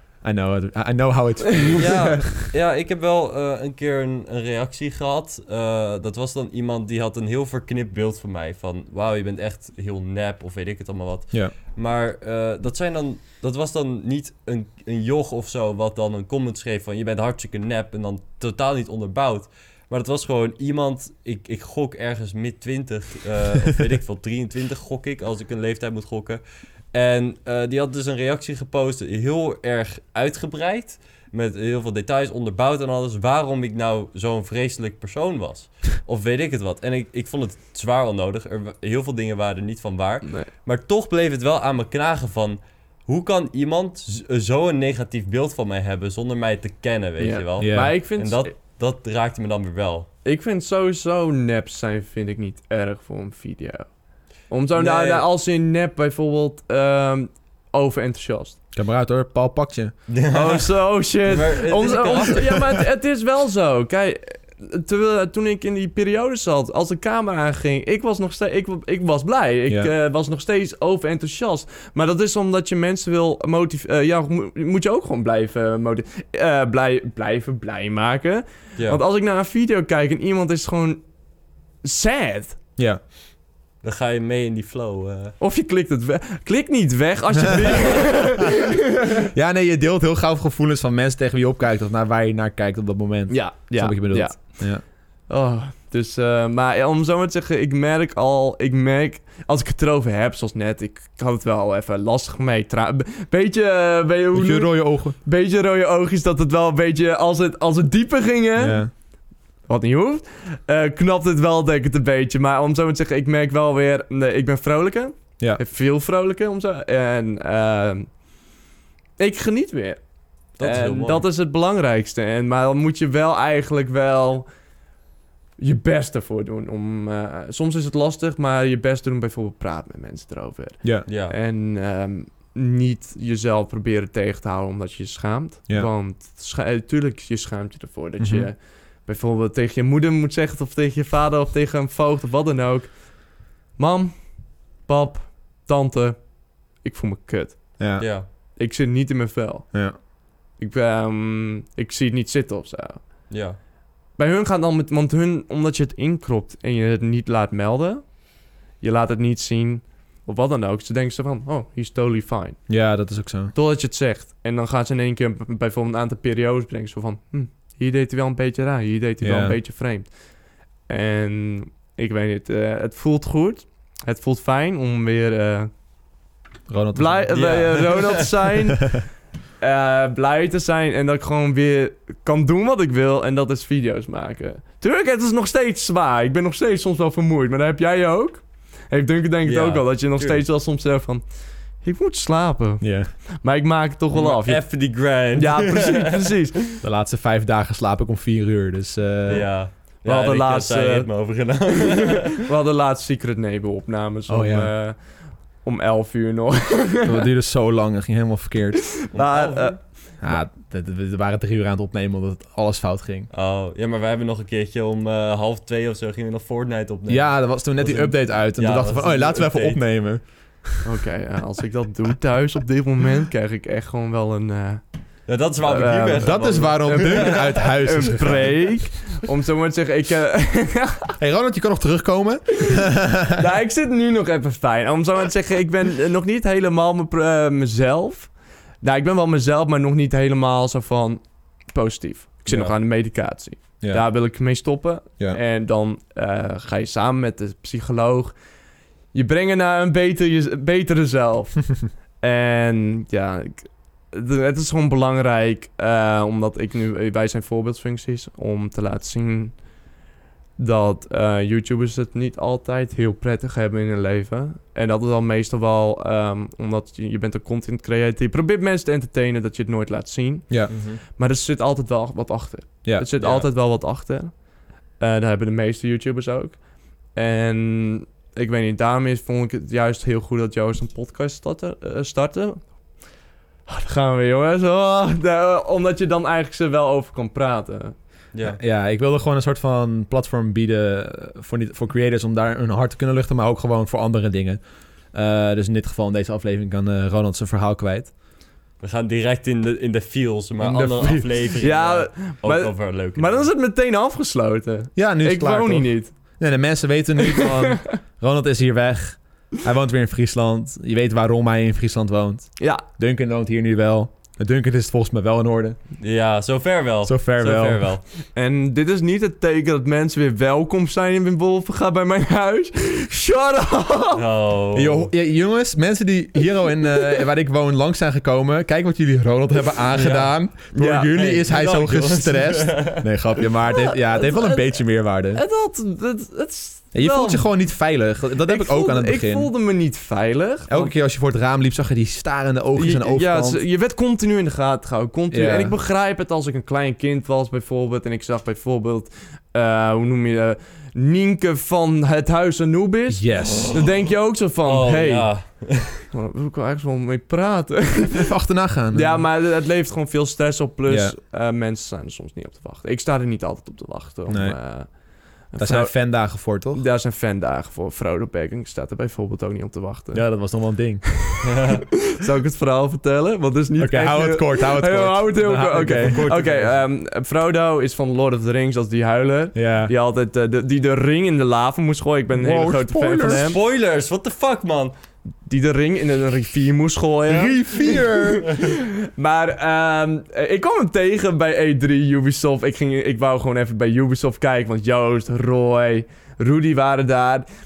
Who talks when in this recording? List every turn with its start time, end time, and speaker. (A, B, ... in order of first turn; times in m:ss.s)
0:00.2-0:02.3 A
0:01.8-0:50.1 B
0:40.2-0:40.5 C
0:47.2-0:48.5 C
0:47.6-0:48.0 A
0:50.2-0:53.9 C
0:54.5-0:58.6 C
0:54.8-0:55.3 B
0:58.7-1:00.0 A
1:00.1-1:02.7 B
1:00.3-1:21.1 C
1:21.8-1:22.6 C
1:23.8-1:25.4 B
1:25.4-1:29.2 C
1:27.4-1:28.2 A
1:29.3-1:34.8 A
1:33.3-1:48.9 C
1:44.3-1:45.2 A
1:48.6-1:48.9 A
1:49.7-1:58.1 C
1:59.2-2:04.5 C
2:00.6-2:01.3 B
2:05.6-2:27.8 C
2:11.1-2:11.4 B
2:18.2-2:18.5 A
2:27.8-2:28.1 A
2:28.0-2:28.3 B
2:28.5-2:29.7 C
2:30.6-2:33.1 C
2:33.3-2:33.6 B
2:34.2-2:38.1 C
2:38.8-2:42.6 C
2:42.7-2:43.5 A
2:43.5-2:50.2 C
2:49.2-2:49.6 A
2:50.9-2:55.7 C
2:56.7-2:57.6 A
2:57.0-2:59.1 C
2:57.3-2:58.3 B
2:59.6-3:11.2 C
3:09.4-3:10.4 B
3:11.8-3:16.7 C
3:12.8-3:13.1 A
3:14.1-3:16.3 B
3:16.8-3:19.5 A
3:19.3-3:22.4 B
3:20.0-3:27.2 C
3:24.3-3:24.7 A
3:27.0-3:28.9 A
3:29.0-3:29.8 C
3:29.1-3:29.8 B
3:30.2-3:33.3 A
3:33.3-3:39.8 B
3:37.1-3:40.8 A
3:40.8-3:44.8 C
3:45.3-3:47.7 B
3:45.6-3:51.2 C
3:46.2-3:48.8 A
3:51.2-3:53.4 A
3:53.3-4:08.4 C
4:02.5-4:02.8 B
4:09.1-4:19.6 C
4:20.6-4:34.4 C
4:30.5-4:30.8 A
4:30.7-4:31.0 B
4:33.2-4:33.5 B
4:35.0-4:42.8 C
4:43.7-4:48.0 C
4:48.3-4:48.6 B
4:48.4-4:54.6 A
4:55.1-4:58.1 A
4:58.8-5:03.5 B
5:00.6-5:06.1 C
5:05.0-5:15.8 A
5:07.2-5:07.9 C
5:12.6-5:12.8 C
5:16.0-5:18.0 B
5:17.0-5:17.9 A
5:18.2-5:24.2 C
5:24.2-5:25.1 B
5:24.7-5:35.4 A
5:30.0-5:30.3 B
5:30.7-5:31.4 C
5:31.2-5:33.0 B
5:33.7-5:37.5 C
5:36.9-5:39.5 A
5:38.4-5:40.9 C
5:40.7-5:43.6 A
5:42.8-5:55.5 C
5:45.3-5:45.8 A
5:53.1-5:53.9 A
5:54.6-5:56.1 B
5:56.1-5:58.3 C
5:58.1-5:59.2 A
5:58.9-6:10.2 C
6:00.9-6:01.2 A
6:04.3-6:04.6 A
6:05.6-6:06.8 A
6:10.1-6:11.0 A
6:11.4-6:11.9 B
6:12.1-6:23.6 C
6:13.8-6:16.3 A
6:15.8-6:16.8 B
6:19.6-6:19.9 A
6:22.4-6:23.6 A
6:23.2-6:24.9 B
6:25.4-6:37.5 C
6:27.3-6:28.5 A